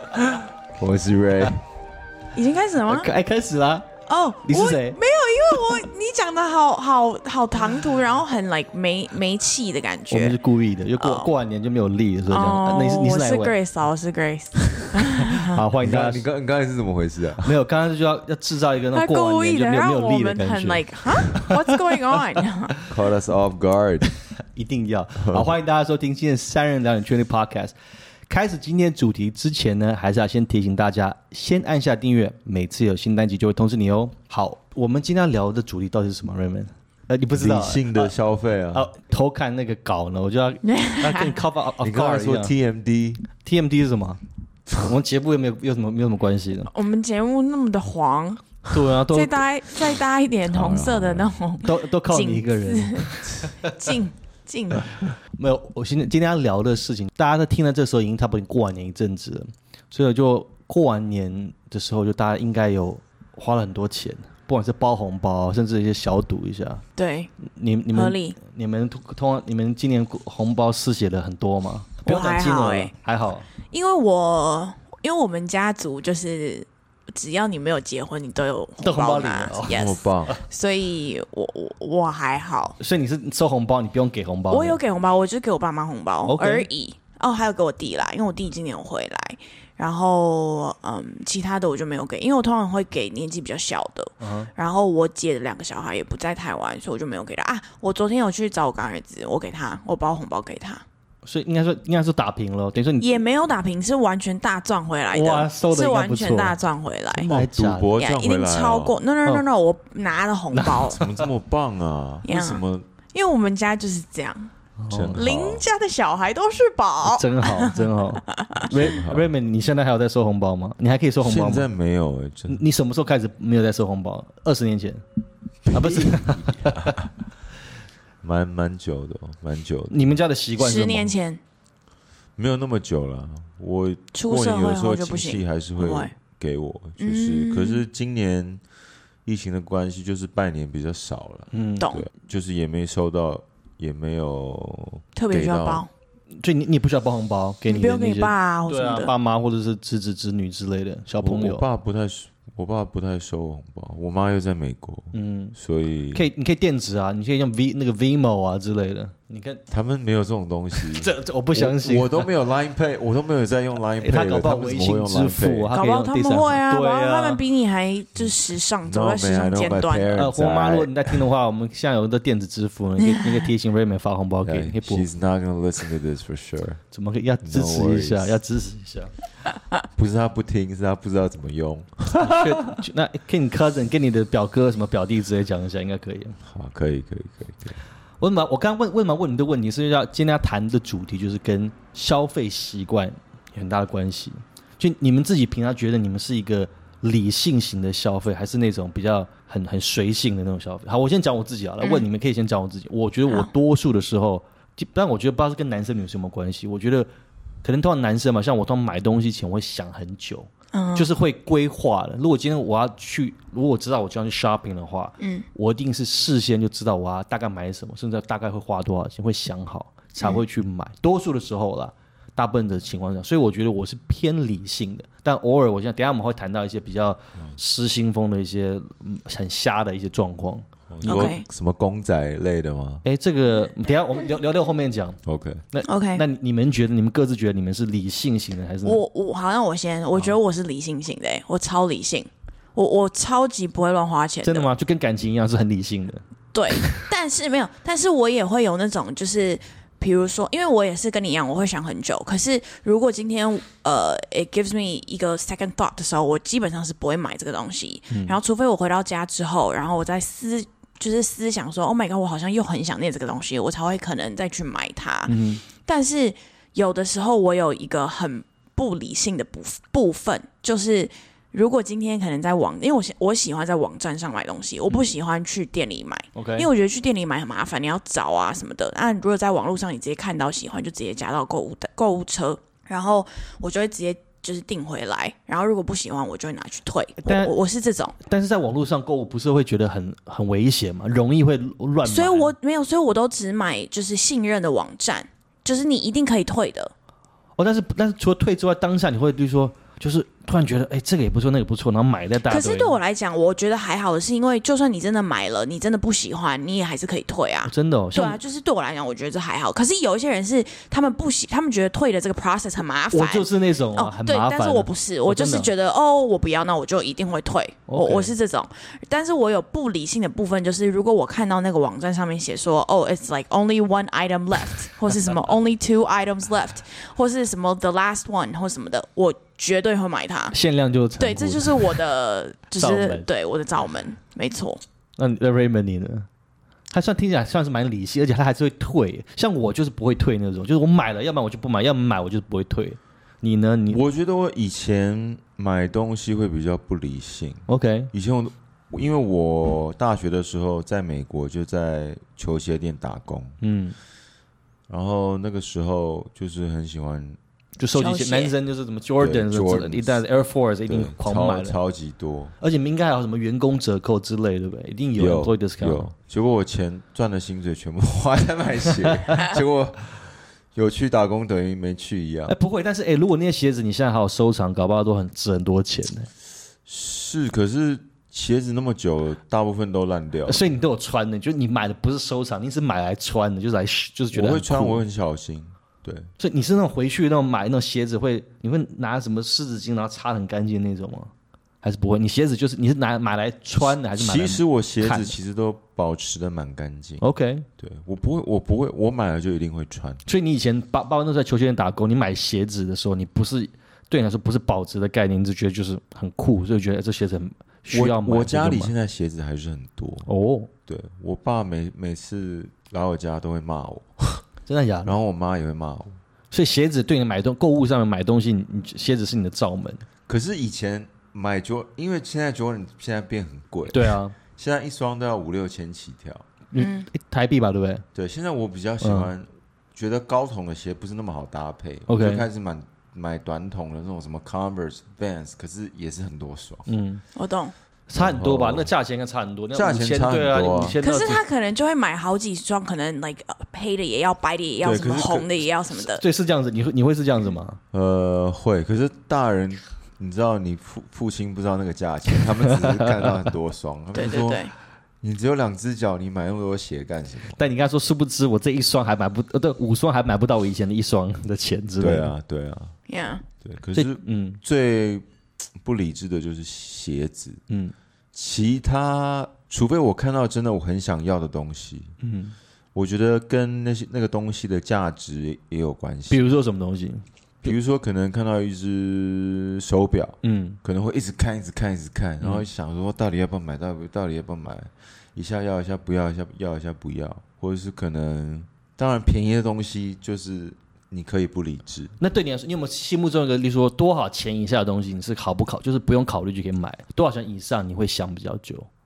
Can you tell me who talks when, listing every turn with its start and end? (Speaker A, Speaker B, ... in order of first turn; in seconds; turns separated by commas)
Speaker A: 0.8-1.6, Speaker B: 2.3-3.1, Speaker C: 2.9-3.9, Speaker B: 4.1-10.4, Speaker C: 4.4-5.0, Speaker C: 10.1-13.6, Speaker B: 11.0-11.3, Speaker B: 12.3-15.6, Speaker C: 15.3-16.2, Speaker A: 15.8-17.5, Speaker C: 17.4-22.8, Speaker B: 18.9-22.8, Speaker A: 22.9-24.1, Speaker C: 24.5-27.7, Speaker A: 25.2-25.5, Speaker C: 28.3-38.1, Speaker A: 37.4-38.9, Speaker C: 38.7-42.5, Speaker B: 40.6-41.4, Speaker A: 41.8-43.2, Speaker C: 43.4-44.2, Speaker C: 44.8-46.7, Speaker B: 46.7-54.9, Speaker C: 48.7-49.4, Speaker A: 50.5-51.4, Speaker C: 51.6-53.9, Speaker C: 55.1-66.8, Speaker B: 67.0-67.3, Speaker C: 67.4-73.5, Speaker B: 67.9-68.4, Speaker B: 72.1-72.9, Speaker B: 73.7-82.8, Speaker C: 78.8-79.8, Speaker A: 79.7-80.4, Speaker C: 82.8-84.8, Speaker B: 84.5-100.8, Speaker C: 86.2-86.7, Speaker C: 94.2-94.5, Speaker C: 101.3-103.2, Speaker B: 103.0-107.3, Speaker C: 105.1-106.6, Speaker C: 107.1-107.9, Speaker A: 107.3-109.0, Speaker B: 108.0-111.1, Speaker C: 110.5-111.0, Speaker A: 110.9-112.9, Speaker B: 112.2-114.5, Speaker C: 114.8-115.2, Speaker A: 114.9-115.7, Speaker B: 115.2-117.8, Speaker C: 117.0-121.7, Speaker A: 118.5-119.3, Speaker A: 121.2-122.6, Speaker C: 122.5-125.0, Speaker A: 125.7-127.1, Speaker C: 125.7-127.0, Speaker A: 128.2-130.1, Speaker C: 129.9-131.2, Speaker B: 130.6-131.4, Speaker A: 132.4-138.6, Speaker B: 134.1-136.1, Speaker B: 137.0-137.8, Speaker A: 139.2-145.9, Speaker C: 141.5-141.9, Speaker B: 145.2-145.9, Speaker C: 146.3-151.6, Speaker B: 147.7-149.1, Speaker A: 151.2-156.2, Speaker C: 155.1-155.6, Speaker C: 156.1-159.6, Speaker A: 159.7-165.7, Speaker C: 160.7-162.3, Speaker C: 164.0-167.4, Speaker B: 165.8-170.1, Speaker A: 168.8-171.2, Speaker C: 170.2-175.1, Speaker A: 174.5-176.8, Speaker C: 176.9-179.1, Speaker A: 177.4-178.4, Speaker A: 180.0-182.5, Speaker C: 182.2-186.4, Speaker A: 186.4-187.8, Speaker C: 188.2-207.1, Speaker B: 201.8-202.1, Speaker C: 207.6-231.3, Speaker B: 210.7-211.1, Speaker B: 215.2-215.5, Speaker A: 230.9-233.0, Speaker B: 231.1-231.4, Speaker C: 233.0-235.2, Speaker A: 235.3-235.7, Speaker C: 235.7-239.0, Speaker B: 235.8-236.2, Speaker B: 238.8-244.7, Speaker C: 244.4-246.2, Speaker B: 246.5-288.1, Speaker C: 246.8-247.1, Speaker C: 258.1-258.4, Speaker C: 265.3-265.6, Speaker C: 276.4-276.7, Speaker C: 287.2-287.5, Speaker C: 288.2-292.5, Speaker B: 292.1-296.9, Speaker C: 297.6-303.0, Speaker B: 302.5-330.6, Speaker C: 307.7-308.4, Speaker C: 313.1-315.7, Speaker C: 317.9-318.3, Speaker C: 330.5-332.0, Speaker B: 331.2-334.8, Speaker C: 332.8-333.3, Speaker C: 335.2-336.3, Speaker C: 336.9-344.0, Speaker A: 343.9-353.6, Speaker C: 347.7-348.1, Speaker C: 353.6-354.0, Speaker A: 354.9-357.4, Speaker C: 357.8-361.8, Speaker B: 357.9-358.6, Speaker A: 359.2-360.2, Speaker A: 360.9-362.5, Speaker C: 362.6-366.1, Speaker A: 365.2-372.5, Speaker C: 369.1-369.4, Speaker C: 372.5-376.3, Speaker A: 376.9-380.6, Speaker C: 380.5-385.0, Speaker A: 384.3-386.3, Speaker C: 386.4-395.4, Speaker A: 394.1-397.2, Speaker C: 397.2-397.7, Speaker A: 397.8-400.2, Speaker C: 400.3-408.9, Speaker A: 407.9-410.3, Speaker C: 410.3-410.7, Speaker A: 410.9-414.4, Speaker C: 414.7-415.1, Speaker A: 415.1-416.2, Speaker C: 416.5-420.1, Speaker A: 420.3-426.5, Speaker C: 423.9-424.4, Speaker C: 426.7-428.0, Speaker B: 426.8-427.1, Speaker A: 428.1-436.9, Speaker C: 429.0-429.3, Speaker C: 432.1-432.4, Speaker C: 436.9-437.2, Speaker B: 437.4-437.7, Speaker C: 438.1-441.4, Speaker A: 438.2-438.9, Speaker A: 439.7-441.0, Speaker B: 441.0-446.2, Speaker A: 444.8-445.6, Speaker C: 446.1-447.8, Speaker A: 447.9-457.6, Speaker C: 452.7-453.4, Speaker B: 454.1-454.7, Speaker C: 457.5-462.3, Speaker A: 462.0-463.0, Speaker B: 463.1-463.4, Speaker A: 463.6-465.3, Speaker C: 463.9-464.6, Speaker A: 465.8-467.6, Speaker C: 467.7-467.9, Speaker A: 468.3-472.1, Speaker C: 472.2-472.6, Speaker A: 472.9-476.4, Speaker C: 476.3-477.7, Speaker A: 477.6-492.1, Speaker C: 480.4-480.8, Speaker C: 492.2-498.9